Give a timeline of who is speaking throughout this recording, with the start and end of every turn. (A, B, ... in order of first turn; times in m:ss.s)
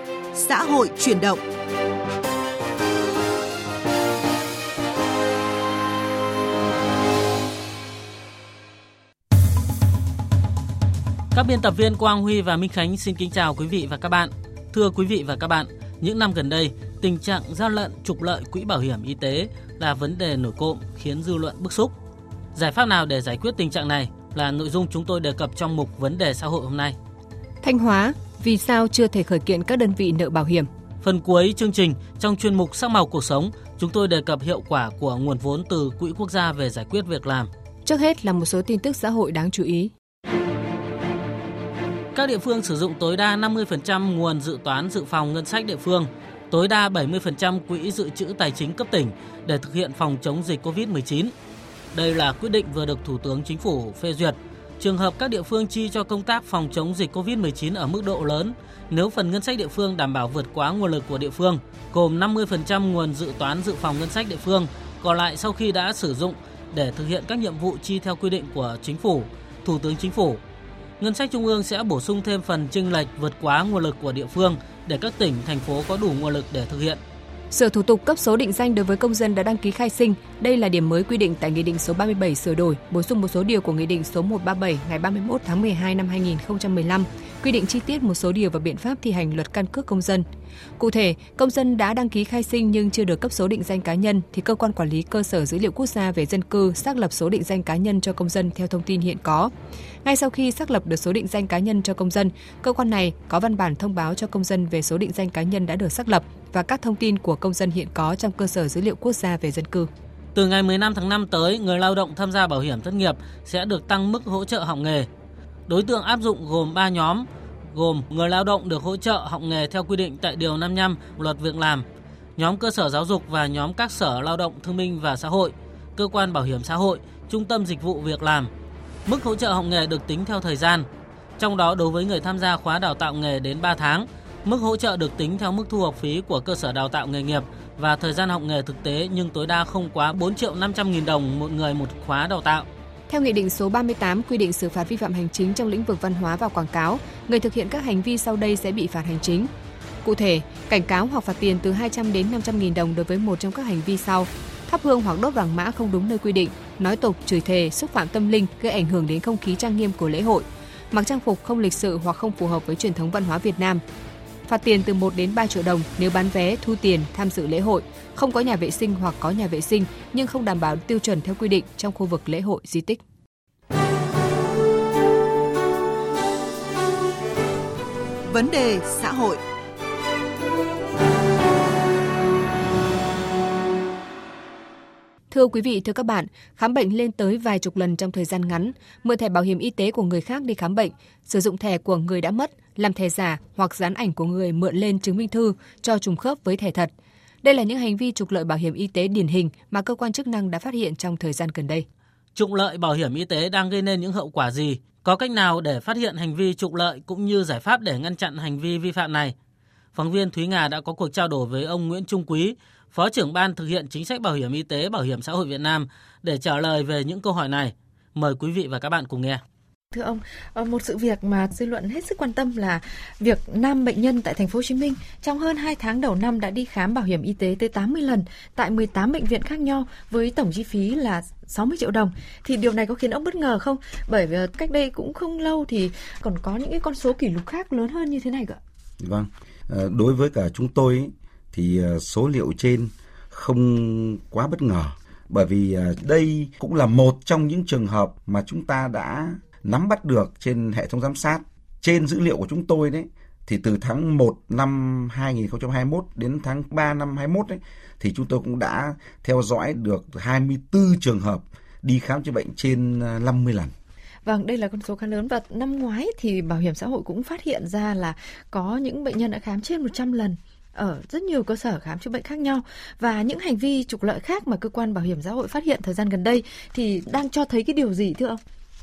0:00.4-0:01.4 A
0:11.3-0:21.9 B
0:22.5-0:27.0 B
0:27.6-0:30.7 C
0:31.0-0:37.5 B
0:37.8-0:39.9 C
0:42.1-0:51.3 B
0:51.9-1:10.4 B
1:11.0-1:17.0 B
1:17.5-1:30.2 C
1:30.8-1:39.5 C
1:40.0-1:49.9 C
1:50.3-1:55.1 B
1:55.7-2:01.8 B
2:02.4-2:08.5 B
2:09.0-2:10.9 B
2:11.4-2:22.7 B
2:23.1-2:29.5 C
2:30.0-2:43.8 C
2:44.5-2:53.0 C
2:58.3-2:59.4 A
3:05.3-3:16.9 C
3:17.4-3:21.8 C
3:22.3-3:29.3 B
3:29.9-3:39.4 B
3:39.9-3:58.6 D
3:59.0-4:23.7 E
4:24.2-4:38.4 D